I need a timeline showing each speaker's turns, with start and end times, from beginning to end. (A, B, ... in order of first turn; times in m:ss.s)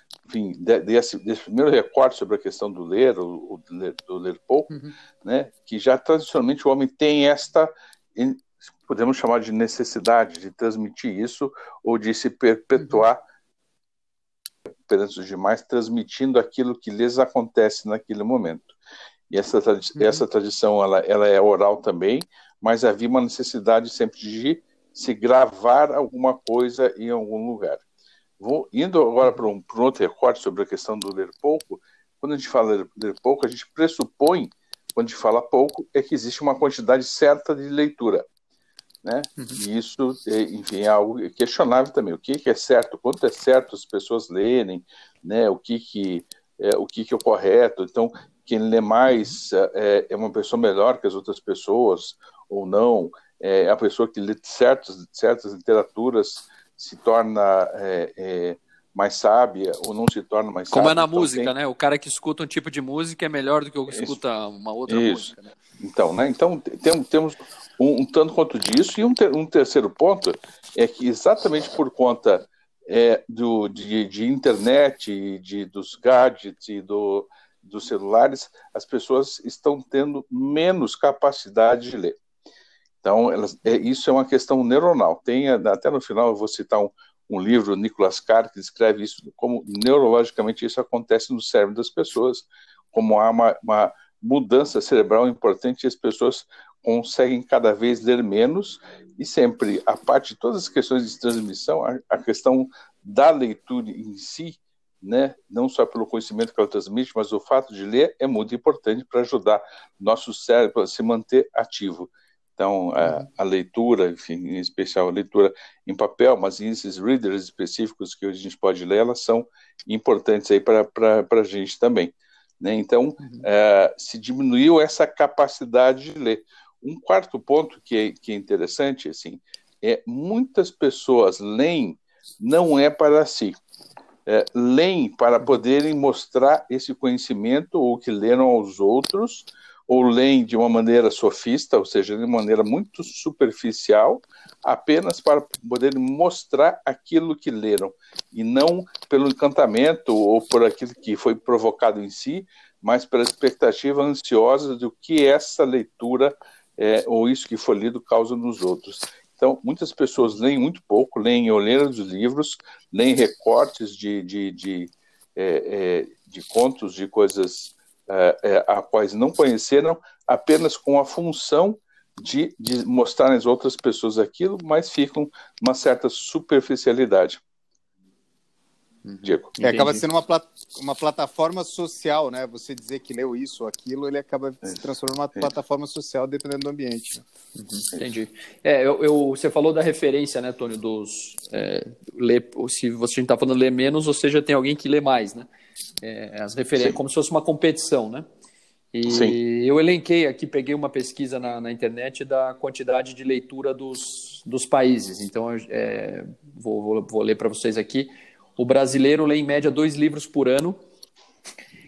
0:00.2-0:13.2 A
0:14.9-0:18.8 A
0:19.3-0:27.8 A
0:20.0-0:20.2 B
0:28.4-0:38.2 A
0:39.0-1:01.5 A
1:00.7-1:05.5 B
1:03.9-1:04.2 A
1:04.9-1:22.2 A
1:23.0-2:13.6 A
2:14.2-2:57.4 A
2:59.0-3:00.0 B
2:59.2-2:59.5 A
2:59.6-3:07.2 C
3:07.6-3:15.5 B
3:16.0-3:18.2 B
3:18.9-3:30.8 B
3:19.1-3:19.4 A